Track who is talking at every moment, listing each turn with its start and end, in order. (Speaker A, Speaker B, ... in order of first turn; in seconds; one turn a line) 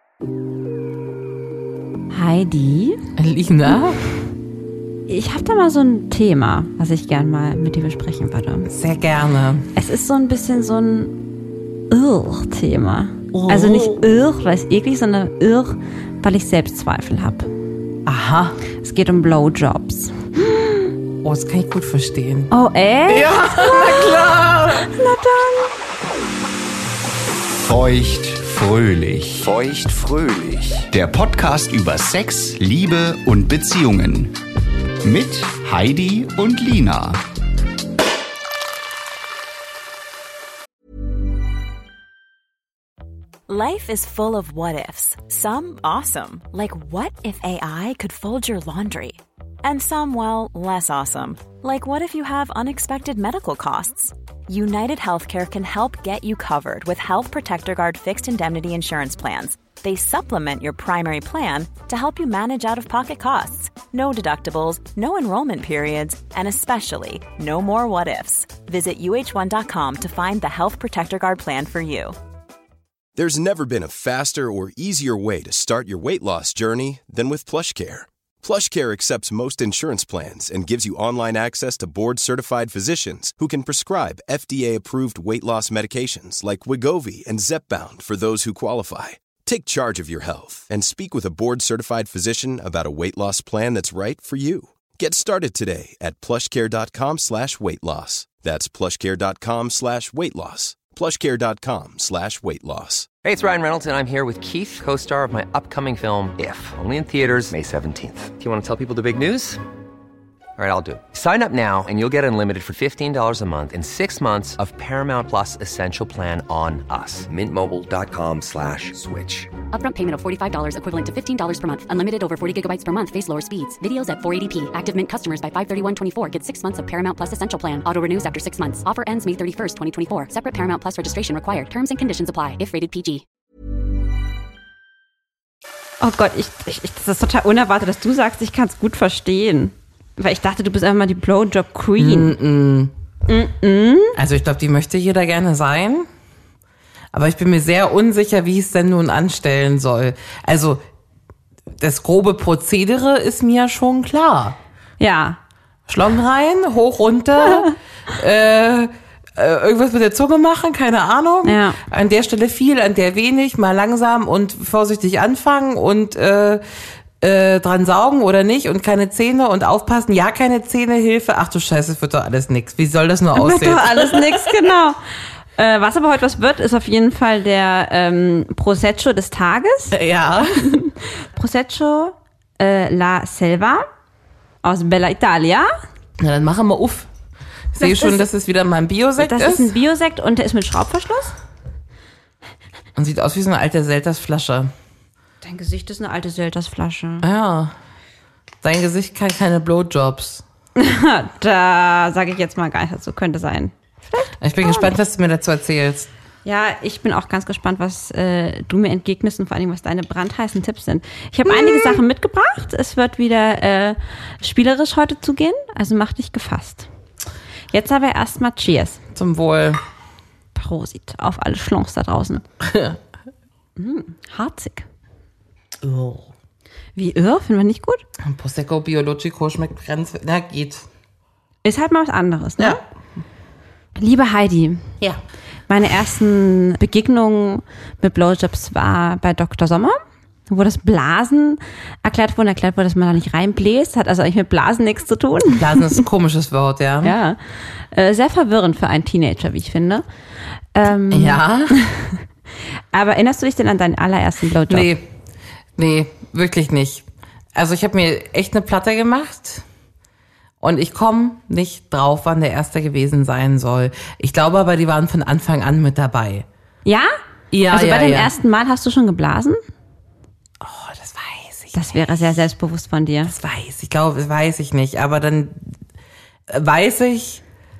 Speaker A: 2.1-3.0
Speaker B: 3.2-4.0
Speaker A: 5.1-8.7
Speaker B: 8.7-9.7
Speaker A: 9.8-11.3
Speaker A: 11.9-17.5
Speaker B: 13.3-14.0
Speaker B: 18.0-18.6
Speaker A: 18.8-20.9
Speaker B: 21.2-22.5
Speaker A: 22.5-24.2
Speaker B: 23.1-24.9
Speaker A: 24.8-25.7
Speaker C: 27.5-34.3
Speaker C: 35.0-37.2
Speaker D: 43.5-72.2
Speaker E: 73.2-103.1
Speaker F: 103.2-109.6
Speaker F: 110.6-119.5
Speaker G: 119.7-133.2
Speaker A: 136.0-142.3
Speaker B: 142.0-142.9
Speaker A: 143.3-144.1
Speaker B: 144.1-146.1
Speaker B: 147.1-150.8
Speaker B: 151.8-154.6
Speaker A: 155.0-155.4
Speaker B: 155.9-166.6
Speaker A: 157.4-157.7
Speaker A: 161.4-161.8
Speaker B: 167.2-174.5
Speaker A: 173.3-175.0
Speaker A: 175.6-180.0
Speaker B: 179.9-180.8
Speaker A: 180.6-183.9
Speaker A: 184.6-185.7
Speaker B: 186.2-187.1
Speaker B: 187.7-189.7
Speaker A: 187.8-188.2
Speaker A: 189.2-191.3
Speaker B: 192.9-194.7
Speaker A: 195.4-197.2
Speaker B: 197.2-197.7
Speaker B: 198.6-200.4
Speaker A: 200.8-204.9
Speaker B: 204.4-206.1
Speaker A: 206.4-216.9
Speaker B: 211.4-212.0
Speaker A: 217.7-219.0
Speaker B: 219.1-219.8
Speaker A: 220.5-222.4
Speaker B: 222.6-223.0
Speaker A: 223.8-224.9
Speaker B: 225.8-226.3
Speaker A: 226.9-228.0
Speaker B: 228.2-230.8
Speaker A: 231.6-232.8
Speaker A: 234.0-234.9
Speaker A: 235.7-240.0
Speaker A: 240.5-246.0
Speaker B: 245.5-247.2
Speaker A: 247.0-250.0
Speaker A: 250.7-252.2
Speaker B: 251.1-251.8
Speaker A: 252.9-254.9
Speaker B: 254.7-255.1
Speaker B: 255.8-259.6
Speaker B: 260.6-266.4
Speaker A: 266.9-267.1
Speaker B: 267.5-268.3
Speaker A: 267.7-269.6
Speaker B: 270.6-272.4
Speaker A: 271.7-273.3
Speaker B: 273.2-275.8
Speaker B: 276.5-277.4